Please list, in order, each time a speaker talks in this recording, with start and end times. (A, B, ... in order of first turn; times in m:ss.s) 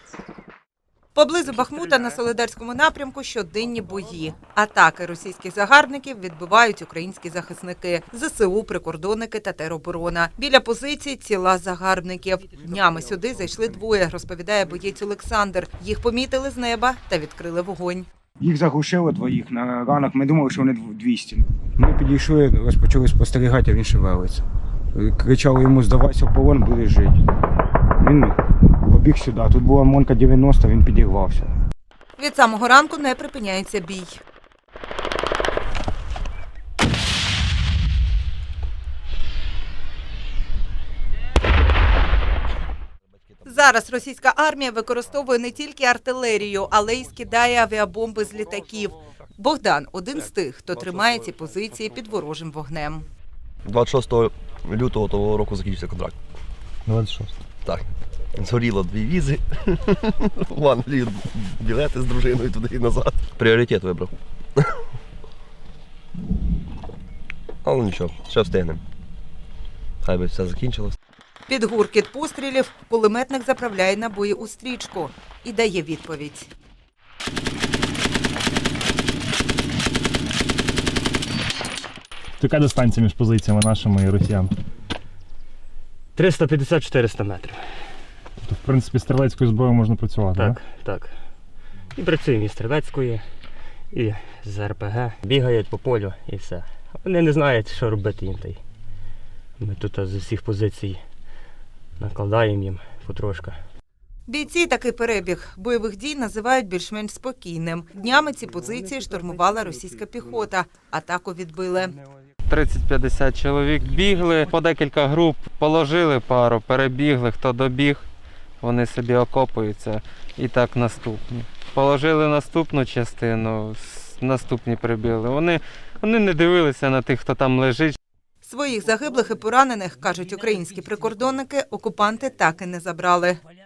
0:01.2-0:18.1 A
0:18.4-0:24.4 B
0:25.0-0:27.2 B
0:28.0-0:31.5 B
0:32.2-0:34.2 A
0:43.4-0:53.1 A
0:53.7-0:56.2 C
0:56.9-0:57.3 D
0:57.6-1:04.6 C
1:07.6-1:08.8 C
1:10.0-1:11.0 C
1:11.5-1:16.5 A
1:22.4-1:24.5 D
1:26.2-1:27.6 E
1:28.4-1:30.6 D
1:30.4-1:31.1 E
1:32.0-1:33.2 E
1:33.9-1:38.6 E
1:39.6-1:41.0 E
1:42.0-1:43.6 E
1:44.3-1:52.0 A
1:48.7-1:49.4 E
1:52.5-1:58.0 F
1:58.6-2:08.0 F
2:08.4-2:13.4 A